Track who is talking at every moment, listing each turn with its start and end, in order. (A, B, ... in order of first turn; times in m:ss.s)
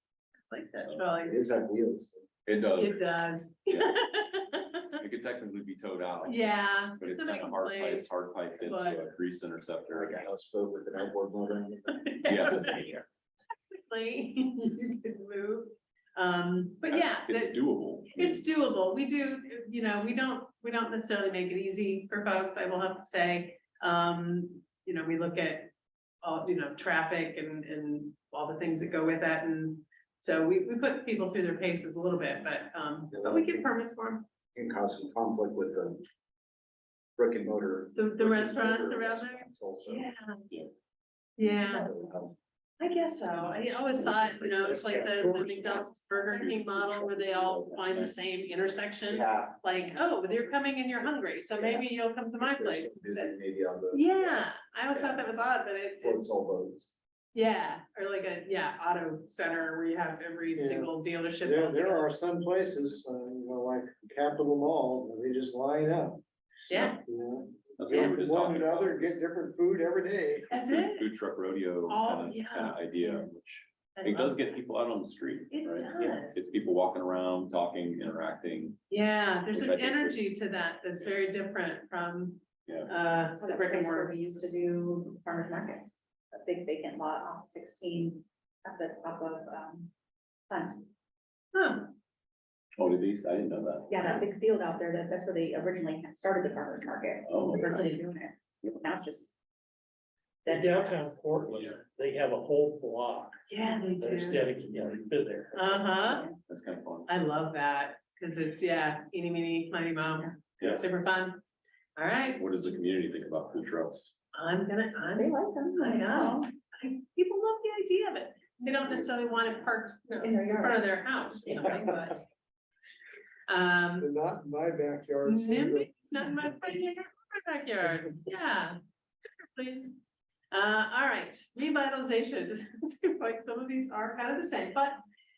0:00.5-0:01.4 A
0:00.8-0:01.0 B
0:01.3-0:02.3 C
0:02.5-0:03.1 B
0:02.8-0:05.0 A
0:03.7-0:04.0 B
0:05.0-0:10.3 B
0:06.2-0:09.1 A
0:09.9-0:12.1 C
0:11.9-0:17.6 A
0:12.2-0:12.7 B
0:16.9-0:18.5 B
0:18.1-0:34.2 A
0:33.1-0:33.7 C
0:34.5-0:36.0 C
0:37.2-0:40.1 C
0:38.0-0:40.4 A
0:41.4-0:41.9 A
0:41.4-0:42.4 C
0:42.8-0:53.3 A
0:44.6-0:45.8 D
0:45.5-0:48.2 B
0:49.1-0:49.6 C
0:51.5-0:54.5 C
0:53.9-0:56.4 A
0:56.0-0:56.9 C
0:57.3-1:02.1 A
1:00.6-1:06.2 E
1:06.7-1:07.0 A
1:06.8-1:10.5 E
1:07.8-1:09.2 B
1:07.9-1:08.2 A
1:10.5-1:11.1 A
1:10.6-1:18.8 B
1:11.9-1:13.3 A
1:14.0-1:14.5 A
1:15.5-1:16.4 A
1:18.9-1:24.2 A
1:19.5-1:20.2 B
1:22.7-1:22.9 B
1:23.4-1:29.9 F
1:30.5-1:30.9 F
1:31.5-1:31.9 A
1:32.8-1:34.0 B
1:33.9-1:39.3 F
1:37.2-1:37.9 B
1:40.4-1:41.1 F
1:40.5-1:43.4 D
1:43.5-1:44.5 A
1:44.0-1:45.9 D
1:45.5-1:46.3 A
1:45.7-1:46.4 F
1:46.5-1:47.2 B
1:47.1-1:51.4 A
1:50.6-1:50.8 B
1:52.0-1:52.4 A
1:52.4-1:54.1 B
1:54.3-2:02.2 A
1:55.2-1:56.5 F
2:00.2-2:01.8 F
2:03.5-2:04.1 A
2:04.0-2:05.9 E
2:05.2-2:08.8 A
2:09.6-2:09.9 A
2:10.5-2:15.0 A